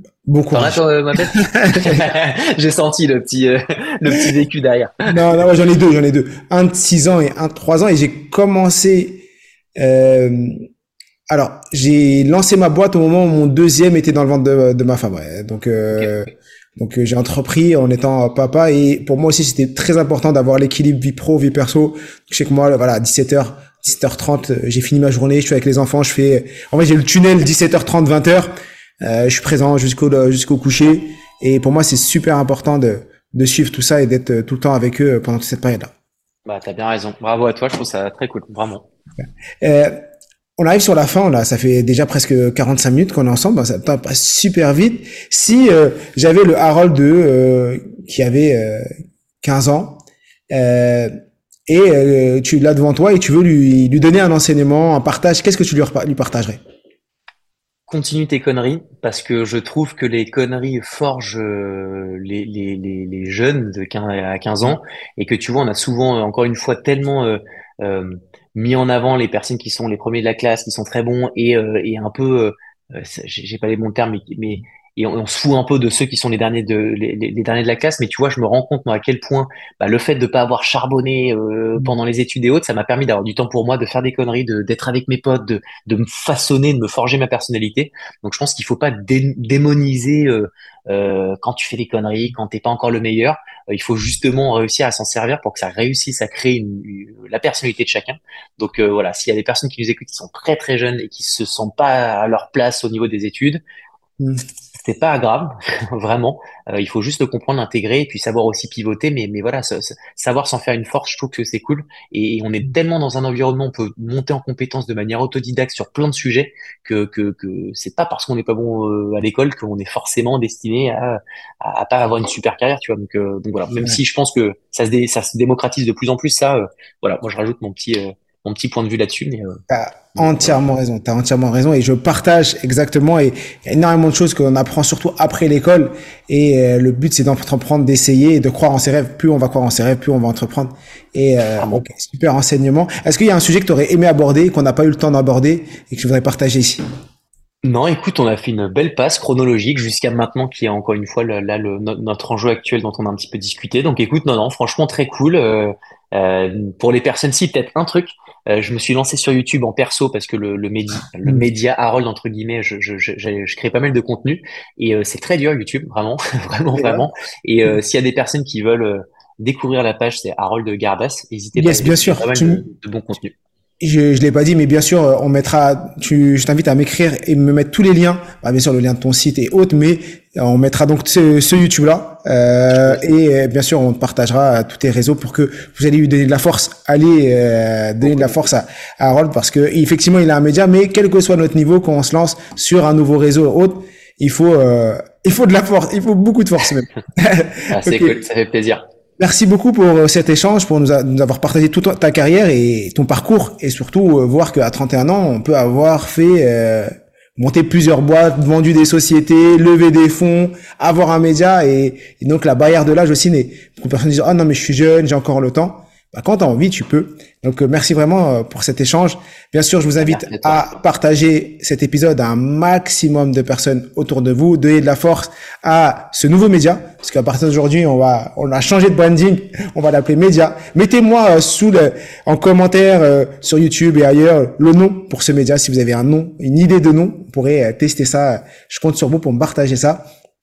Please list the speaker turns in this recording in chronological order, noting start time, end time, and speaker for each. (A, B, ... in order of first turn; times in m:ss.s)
0:00.2-0:00.8 A
0:00.5-0:05.1 B
0:01.3-0:02.0 A
0:05.0-0:09.2 A
0:09.8-0:10.6 A
0:11.3-0:35.9 A
0:36.4-0:38.8 B
0:39.6-0:40.0 A
0:40.6-0:48.9 A
0:49.4-0:51.1 A
0:51.7-0:56.6 A
0:57.9-1:43.6 B
1:44.8-2:09.6 B
2:09.7-2:26.8 A
2:27.6-2:53.3 B
2:46.8-2:47.1 A
2:51.5-2:52.6 A
2:53.8-3:18.2 A
3:08.0-3:08.4 B
3:17.7-3:18.8 B
3:19.2-4:00.0 A
3:40.0-3:40.8 B